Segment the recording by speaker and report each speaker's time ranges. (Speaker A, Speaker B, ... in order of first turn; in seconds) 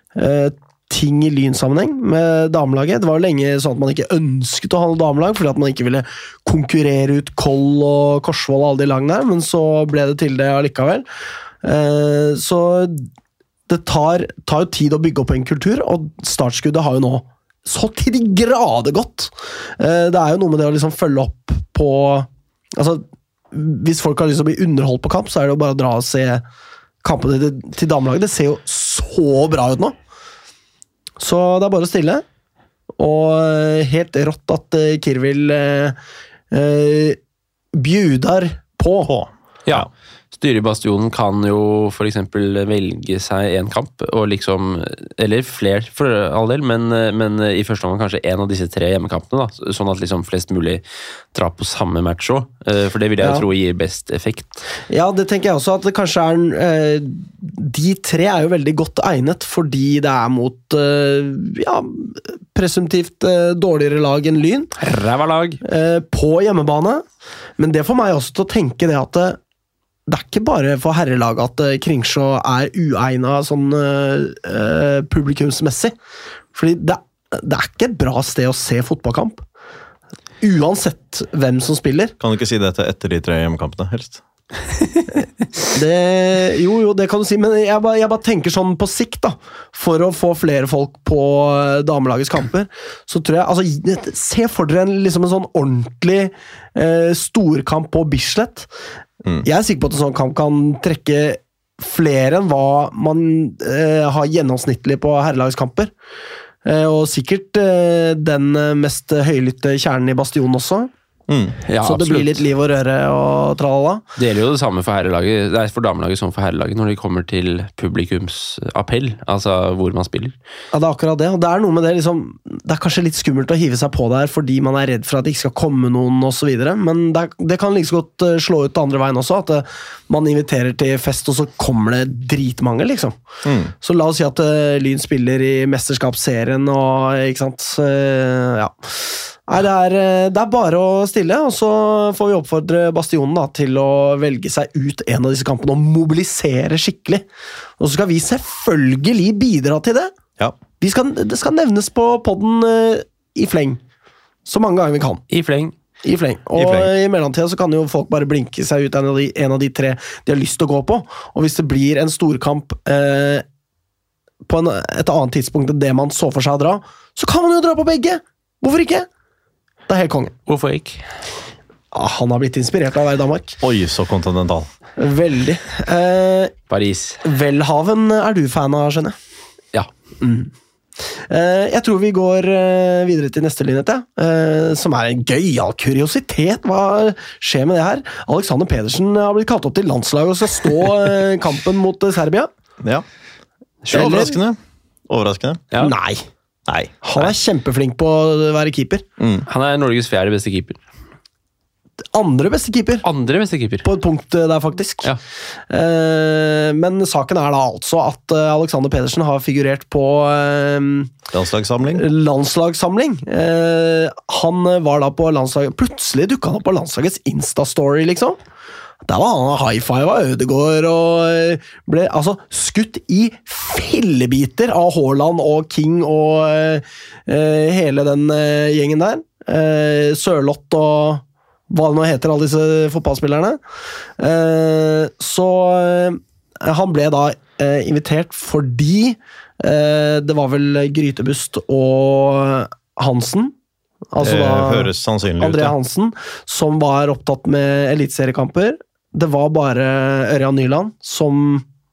Speaker A: 0.2-11.1, 11.6-13.1, 13.7-26.4, 27.0-29.9, 31.2-32.2, 33.0-36.0, 36.5-37.2, 37.7-39.1, 54.9-64.8, 65.6-67.0, 67.6-69.4, 70.1-75.9, 76.5-79.4, 80.4-82.1, 85.7-98.7, 99.4-105.9, 106.7-110.9, 111.8-114.0, 120.7-133.2, 133.8-147.2, 147.8-150.1, 150.8-153.8, 154.5-155.2, 156.0-163.4, 164.5-169.1, 169.9-170.3, 171.9-173.6, 175.0-176.5, 177.2-179.2, 180.2-180.5, 181.3-192.5, 193.9-194.3, 195.8-196.3, 197.0-199.0, 202.1-203.1, 203.8-205.1, 205.7-211.1, 211.9-218.4, 219.0-233.6, 234.2-243.5, 244.1-251.7
Speaker B: 39.1-39.9, 82.2-84.2, 111.3-111.6, 133.4-133.7, 156.6-156.9, 173.6-174.7, 193.9-195.7, 196.7-197.3, 199.2-199.5, 211.3-212.0, 244.2-245.8
Speaker C: 39.7-50.8, 51.3-54.6, 64.8-65.6, 111.7-112.4, 114.2-120.3, 155.3-155.7, 170.5-171.0, 176.7-177.2, 193.9-194.2, 199.5-200.8, 203.0-203.9